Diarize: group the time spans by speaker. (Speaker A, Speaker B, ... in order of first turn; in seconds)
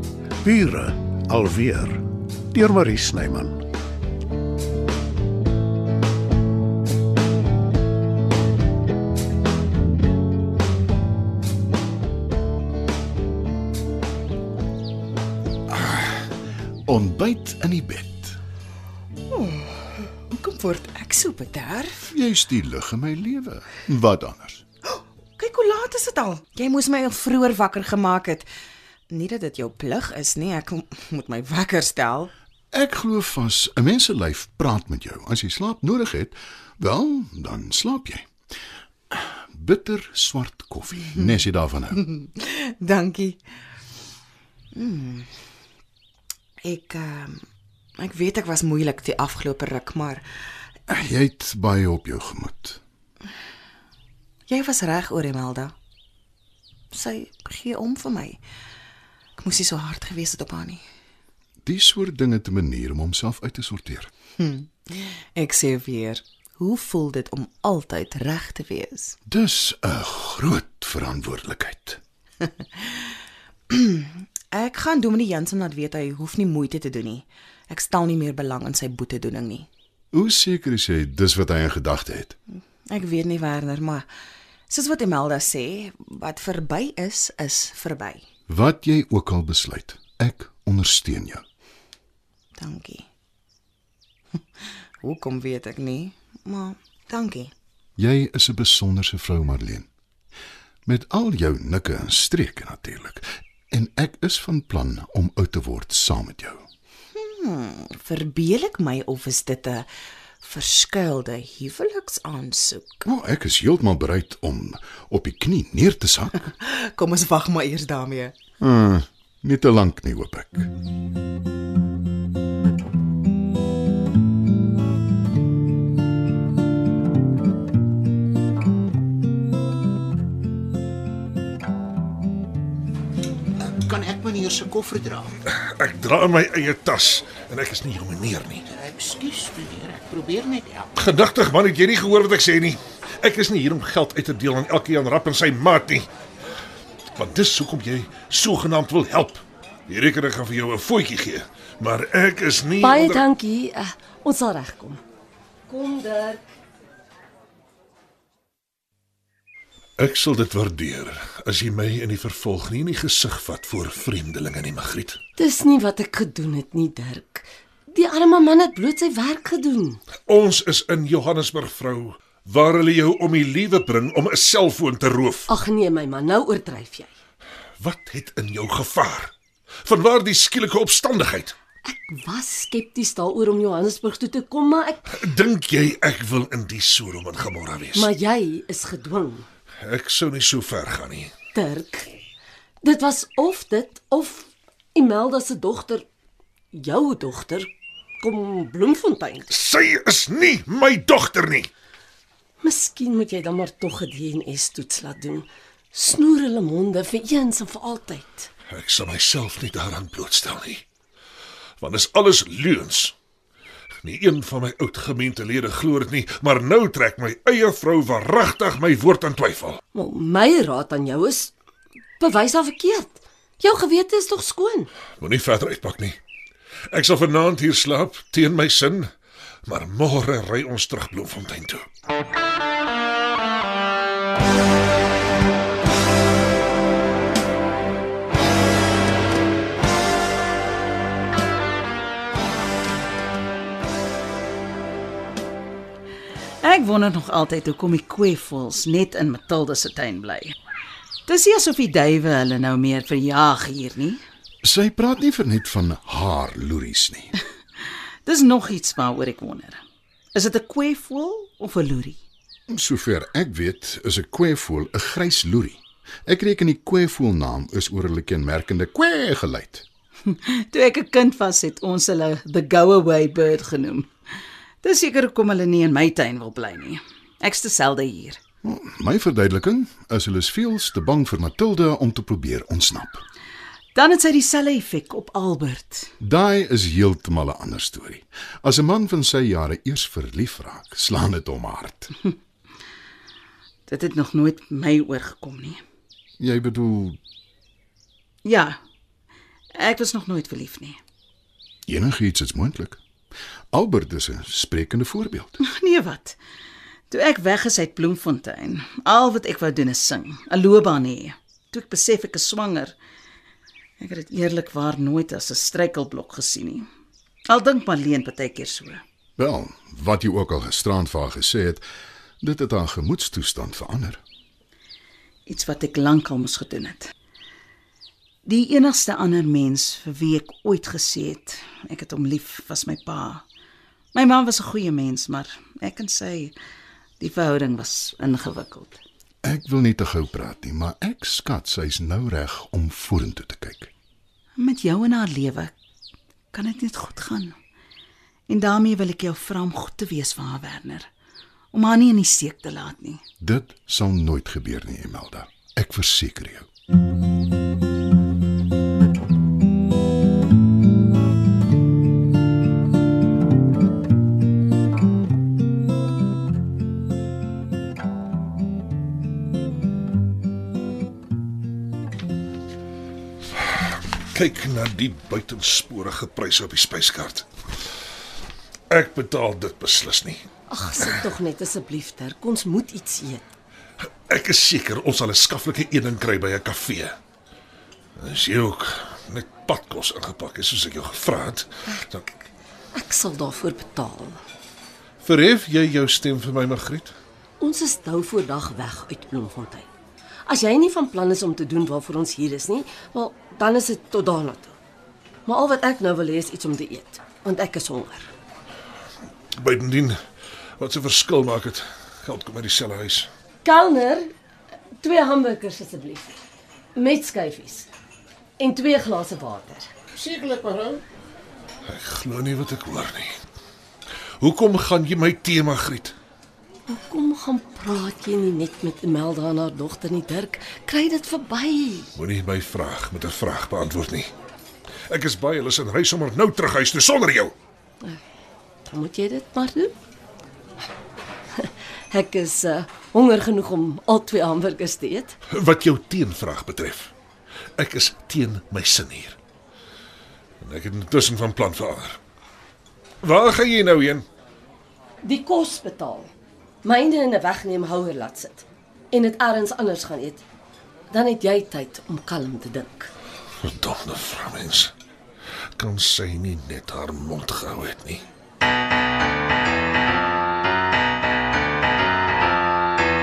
Speaker A: 0.4-3.6
Speaker B: 15.7-16.3, 16.9-18.4, 22.1-24.6, 32.7-38.3, 39.1-42.0, 50.9-52.8, 61.6-64.1, 69.3-72.0, 80.1-82.4, 88.5-91.4, 98.0-99.9, 100.8-106.7, 113.0-116.5, 118.6-120.7, 254.6-257.3, 262.7-269.9, 278.6-283.2, 286.2-292.1, 296.4-297.2, 301.9-303.0, 303.7-305.6, 319.4-321.8, 322.4-324.2, 339.4-343.9, 353.4-356.7
Speaker C: 19.3-22.1, 25.4-28.5, 29.1-32.3, 42.0-43.4, 44.7-45.3, 46.6-47.4, 48.0-50.2, 54.5-55.7, 56.9-58.4, 59.4-60.8, 64.4-69.2, 73.7-79.7, 82.8-84.1, 84.7-88.2, 92.6-93.1, 94.4-97.5, 107.1-109.9, 110.4-113.0, 116.6-118.3
Speaker D: 133.8-135.3, 138.8-140.8
Speaker E: 135.4-138.7, 140.9-146.1, 147.1-153.3, 160.0-165.2, 170.3-175.5, 177.8-181.5, 185.1-188.1, 189.8-191.3, 199.5-201.7, 208.7-210.8, 211.8-213.1, 214.0-219.8, 225.2-226.2, 226.9-229.1, 229.7-231.8, 374.3-377.5, 378.9-380.4, 384.3-387.1, 388.2-392.4, 395.2-397.1, 409.6-410.2, 410.8-413.3, 421.9-423.4, 424.4-426.1, 432.1-434.3, 435.1-437.5, 445.5-447.1, 447.8-449.4, 450.6-452.2, 453.2-454.2, 463.6-464.9, 465.8-468.2
Speaker F: 152.8-155.0, 155.7-156.5, 165.4-170.0, 175.5-177.1, 181.8-185.1, 187.9-189.5, 191.5-192.1, 192.8-196.0, 196.7-199.4, 202.6-208.5, 219.9-221.5, 222.2-224.9, 380.7-383.4, 392.9-394.4, 397.6-399.9, 400.4-404.8, 405.4-408.3, 413.6-414.3, 415.0-416.4, 416.9-417.9, 418.6-419.9, 426.9-432.1, 438.9-439.9, 441.6-445.3, 455.2-456.3, 456.8-460.4, 461.1-463.1
Speaker G: 246.6-250.5, 251.3-254.2, 258.2-259.8, 260.3-262.2, 270.3-274.1, 274.8-278.4, 283.9-286.1, 293.9-295.8, 298.4-298.8, 299.8-301.0, 305.6-306.4, 307.1-312.9, 314.0-316.9, 317.5-319.0, 325.4-327.1, 328.4-333.4, 334.1-336.5, 337.2-339.0, 344.6-345.7, 346.5-347.6, 348.5-351.1, 351.7-353.2